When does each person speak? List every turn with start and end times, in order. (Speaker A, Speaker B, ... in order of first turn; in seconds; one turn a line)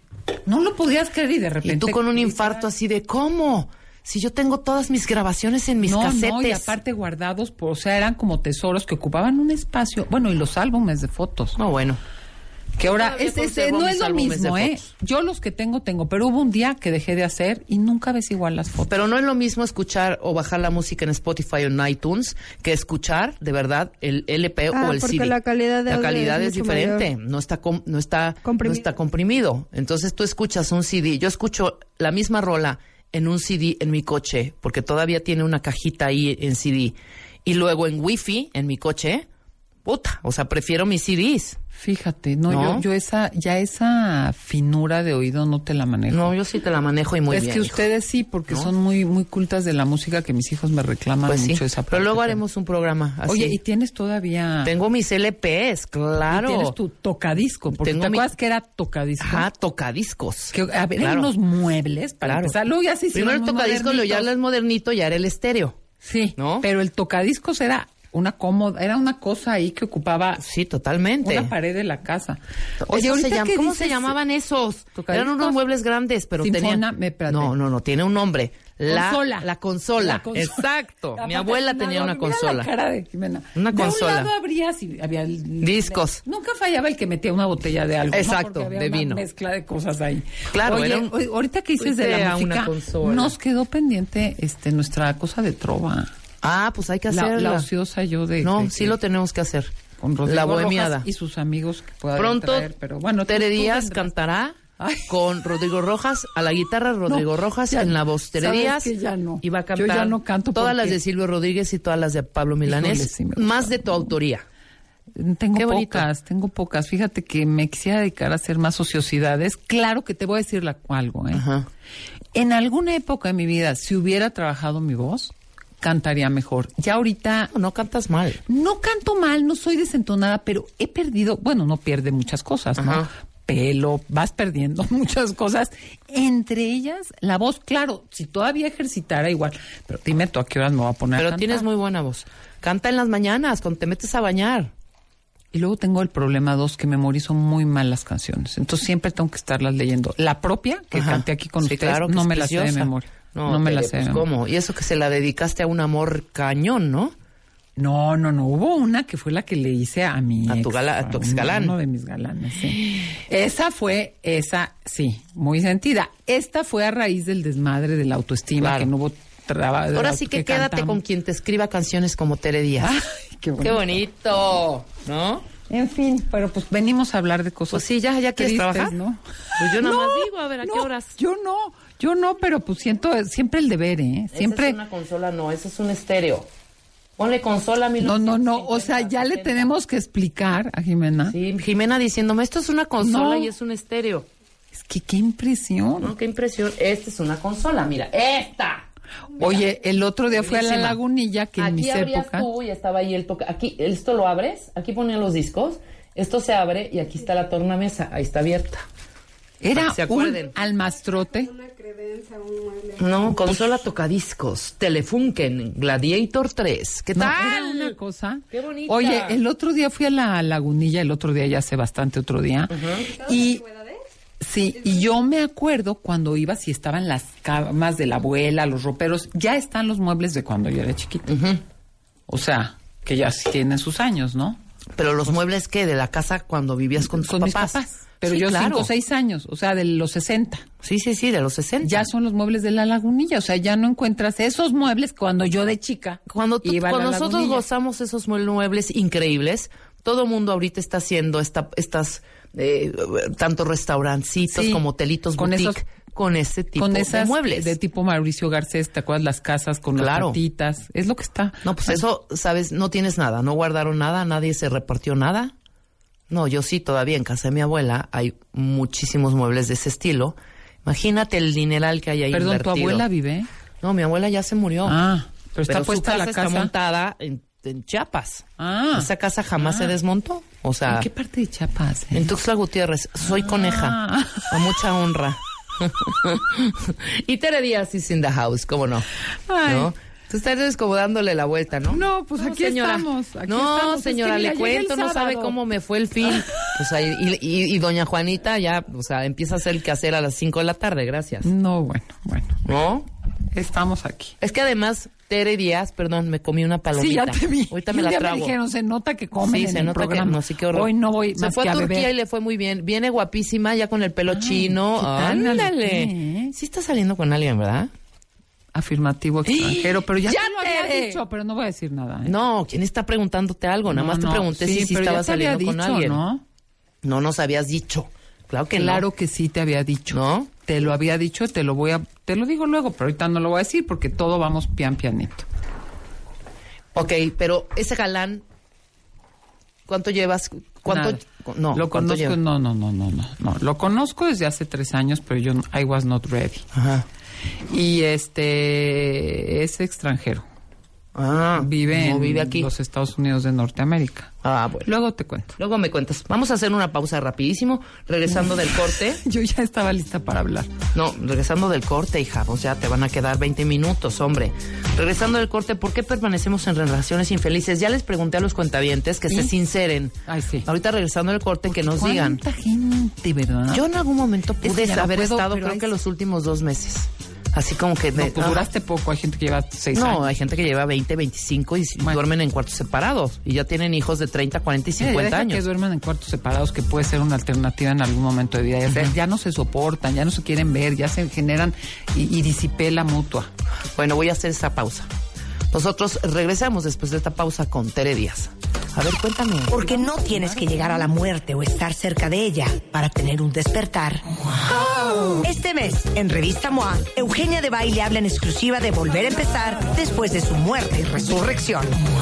Speaker A: 0.5-2.7
Speaker B: 1.6-6.7
Speaker A: 5.8-11.6
Speaker B: 11.6-12.0
Speaker A: 12.8-18.9
Speaker B: 12.8-14.9
Speaker B: 18.9-25.4
Speaker C: 24.7-27.1
Speaker B: 25.9-39.2
Speaker C: 28.4-28.9
Speaker B: 39.8-41.6
Speaker A: 41.7-46.3
Speaker B: 42.5-42.8
Speaker B: 46.1-47.9
Speaker A: 47.3-52.4
Speaker B: 51.3-53.6
Speaker A: 53.2-54.7
Speaker B: 54.6-56.7
Speaker A: 56.3-59.5
Speaker B: 57.7-58.3
Speaker B: 59.2-61.3
Speaker A: 60.5-64.3
Speaker B: 62.2-62.5
Speaker B: 63.1-65.8
Speaker A: 66.0-70.4
Speaker B: 66.3-66.7
Speaker B: 70.4-71.5
Speaker A: 71.2-74.2
Speaker B: 72.8-82.7
Speaker A: 75.0-75.6
Speaker A: 76.4-77.5
Speaker A: 78.9-96.1
Speaker B: 83.5-84.3
Speaker B: 85.6-86.2
Speaker B: 88.1-89.2
Speaker B: 90.5-91.1
Speaker B: 91.8-93.3
Speaker B: 96.4-97.7
Speaker A: 97.1-99.0
Speaker B: 98.4-99.7
Speaker A: 100.0-104.1
Speaker B: 100.2-101.0
Speaker B: 102.2-102.7
Speaker B: 103.2-108.9
Speaker A: 104.8-105.6
Speaker A: 107.0-111.0
Speaker B: 109.4-114.4
Speaker A: 112.6-114.1
Speaker A: 115.1-121.4
Speaker B: 115.5-116.1
Speaker B: 121.3-121.7
Speaker A: 122.3-127.5
Speaker B: 127.5-128.4
Speaker A: 128.5-141.7
Speaker B: 132.8-133.1
Speaker B: 141.2-144.7
Speaker A: 145.5-154.2
Speaker B: 150.9-157.1
Speaker A: 157.8-171.0
Speaker B: 160.5-161.8
Speaker B: 168.6-168.9
Speaker B: 169.9-173.0
Speaker A: 172.8-173.8
Speaker B: 173.6-175.4
Speaker A: 175.7-184.8
Speaker B: 177.7-178.9
Speaker B: 179.6-181.1
Speaker B: 184.3-186.4
Speaker B: 187.2-189.7
Speaker A: 188.0-191.3
Speaker B: 191.3-194.3
Speaker A: 193.0-193.5
Speaker A: 194.7-196.1
Speaker B: 196.0-198.8
Speaker A: 199.4-202.5
Speaker B: 199.4-199.7
Speaker B: 200.3-201.0
Speaker B: 201.6-208.8
Speaker A: 209.6-211.5
Speaker B: 209.7-210.5
Speaker C: 211.4-213.4
Speaker B: 213.0-217.9
Speaker A: 217.1-223.6
Speaker B: 218.5-219.4
Speaker B: 222.7-223.2
Speaker A: 224.4-231.3
Speaker B: 231.3-231.6
Speaker A: 232.3-234.6
Speaker B: 234.9-238.9
Speaker A: 237.0-240.6
Speaker B: 240.8-242.1
Speaker A: 241.8-247.6
Speaker B: 246.3-257.8
Speaker A: 254.5-254.8
Speaker A: 255.4-255.8
Speaker A: 256.8-262.0
Speaker B: 259.9-260.4
Speaker B: 261.6-265.5
Speaker B: 266.3-273.0
Speaker A: 272.3-273.5
Speaker B: 273.8-274.9
Speaker A: 274.8-276.7
Speaker B: 275.7-281.1
Speaker A: 278.6-279.9
Speaker A: 280.9-282.3
Speaker B: 282.1-284.0
Speaker A: 283.2-284.6
Speaker B: 284.5-289.1
Speaker A: 289.3-289.9
Speaker B: 289.6-301.5
Speaker A: 291.9-295.6
Speaker A: 296.2-296.8
Speaker A: 301.4-302.6
Speaker B: 302.6-303.1
Speaker A: 303.5-304.3
Speaker B: 304.4-308.5
Speaker A: 306.9-312.1
Speaker B: 309.4-317.9
Speaker A: 314.3-316.5
Speaker A: 318.7-322.3
Speaker B: 319.5-321.2
Speaker B: 322.2-326.2
Speaker A: 323.9-326.4
Speaker B: 327.0-329.1
Speaker A: 328.7-335.5
Speaker B: 330.1-330.5
Speaker B: 336.9-338.4
Speaker B: 339.9-342.4
Speaker A: 340.8-341.2
Speaker A: 341.7-346.6
Speaker B: 346.7-347.0
Speaker A: 347.7-350.4
Speaker B: 351.1-352.7
Speaker A: 351.6-354.3
Speaker B: 354.4-354.9
Speaker A: 354.8-355.5
Speaker B: 355.6-359.2
Speaker A: 358.3-360.7
Speaker B: 360.9-370.1
Speaker A: 370.2-370.7
Speaker B: 370.6-372.4
Speaker A: 371.7-373.9
Speaker B: 373.7-378.6
Speaker A: 374.6-375.9
Speaker A: 378.1-380.3
Speaker B: 379.9-385.6
Speaker A: 385.0-393.5
Speaker B: 388.9-389.1
Speaker B: 393.9-395.1
Speaker B: 395.7-399.7
Speaker D: 399.7-404.2
Speaker A: 399.8-401.1
Speaker D: 405.2-412.0